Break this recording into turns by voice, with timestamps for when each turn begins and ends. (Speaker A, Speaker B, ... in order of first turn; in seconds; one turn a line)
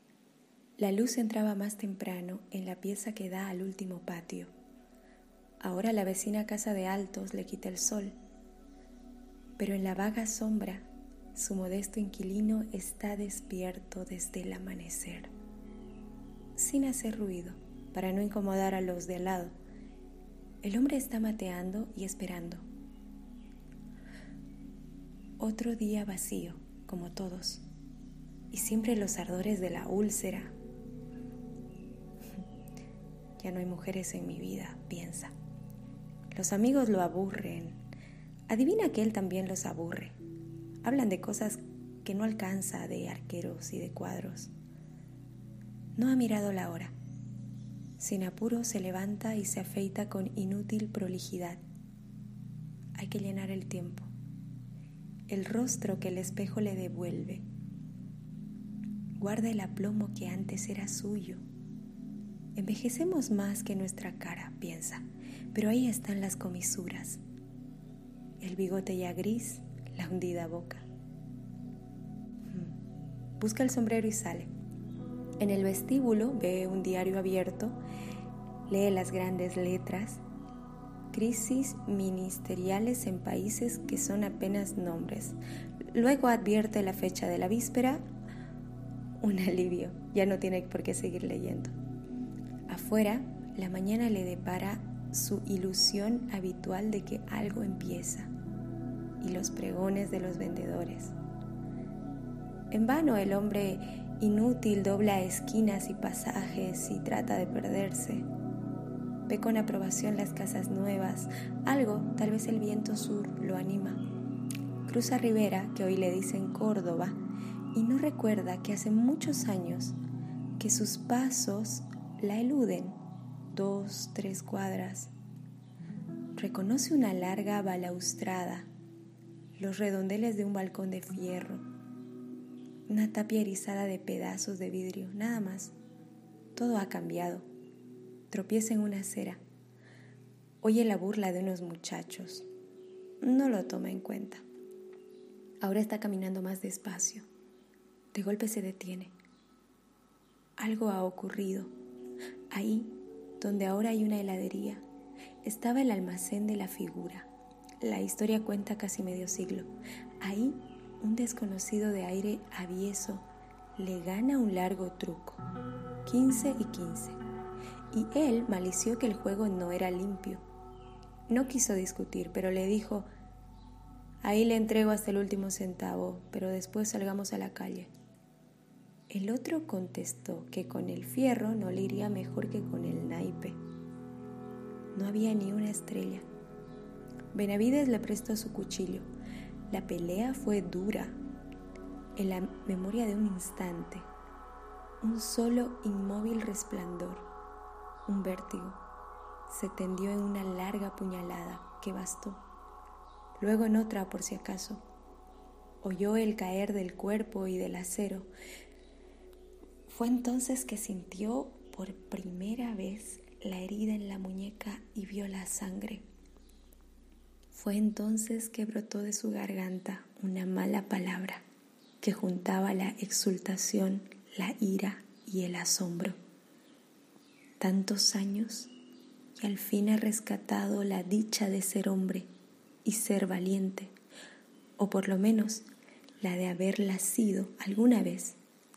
Speaker A: 0.8-4.5
Speaker A: 5.6-8.1
Speaker A: 9.6-15.3
Speaker A: 16.6-19.5
Speaker A: 20.6-22.6
Speaker A: 25.4-27.6
Speaker A: 28.5-30.5
Speaker A: 33.4-35.3
Speaker A: 36.3-37.8
Speaker A: 38.5-40.2
Speaker A: 40.8-44.5
Speaker A: 46.0-46.9
Speaker A: 48.0-51.6
Speaker A: 53.0-54.1
Speaker A: 55.3-57.4
Speaker A: 59.2-61.4
Speaker A: 62.5-67.2
Speaker A: 68.4-70.8
Speaker A: 72.5-72.8
Speaker A: 73.4-74.5
Speaker A: 75.4-77.8
Speaker A: 78.7-80.2
Speaker A: 81.1-85.4
Speaker A: 85.9-88.0
Speaker A: 89.2-91.7
Speaker A: 92.7-98.3
Speaker A: 99.2-101.2
Speaker A: 102.7-108.3
Speaker A: 109.3-114.0
Speaker A: 114.8-117.2
Speaker A: 117.7-120.0
Speaker A: 120.6-123.0
Speaker A: 123.5-125.1
Speaker A: 126.3-128.7
Speaker A: 129.6-131.7
Speaker A: 132.9-135.7
Speaker A: 136.6-137.4
Speaker A: 138.3-139.4
Speaker A: 140.6-142.4
Speaker A: 143.2-144.4
Speaker A: 145.6-147.2
Speaker A: 148.1-149.1
Speaker A: 150.6-151.7
Speaker A: 152.5-154.8
Speaker A: 155.4-157.3
Speaker A: 157.8-159.7
Speaker A: 160.2-163.2
Speaker A: 163.8-165.4
Speaker A: 166.0-167.2
Speaker A: 167.9-170.4
Speaker A: 171.3-173.1
Speaker A: 174.2-177.9
Speaker A: 179.1-183.6
Speaker A: 184.9-186.2
Speaker A: 187.3-189.1
Speaker A: 189.7-191.2
Speaker A: 192.2-194.1
Speaker A: 195.0-197.2
Speaker A: 198.1-198.8
Speaker A: 199.5-202.4
Speaker A: 203.4-204.8
Speaker A: 205.8-208.3
Speaker A: 209.9-216.0
Speaker A: 217.5-221.4
Speaker A: 222.0-226.2
Speaker A: 227.6-228.7
Speaker A: 229.4-232.3
Speaker A: 232.8-233.9
Speaker A: 234.8-235.7
Speaker A: 236.2-238.4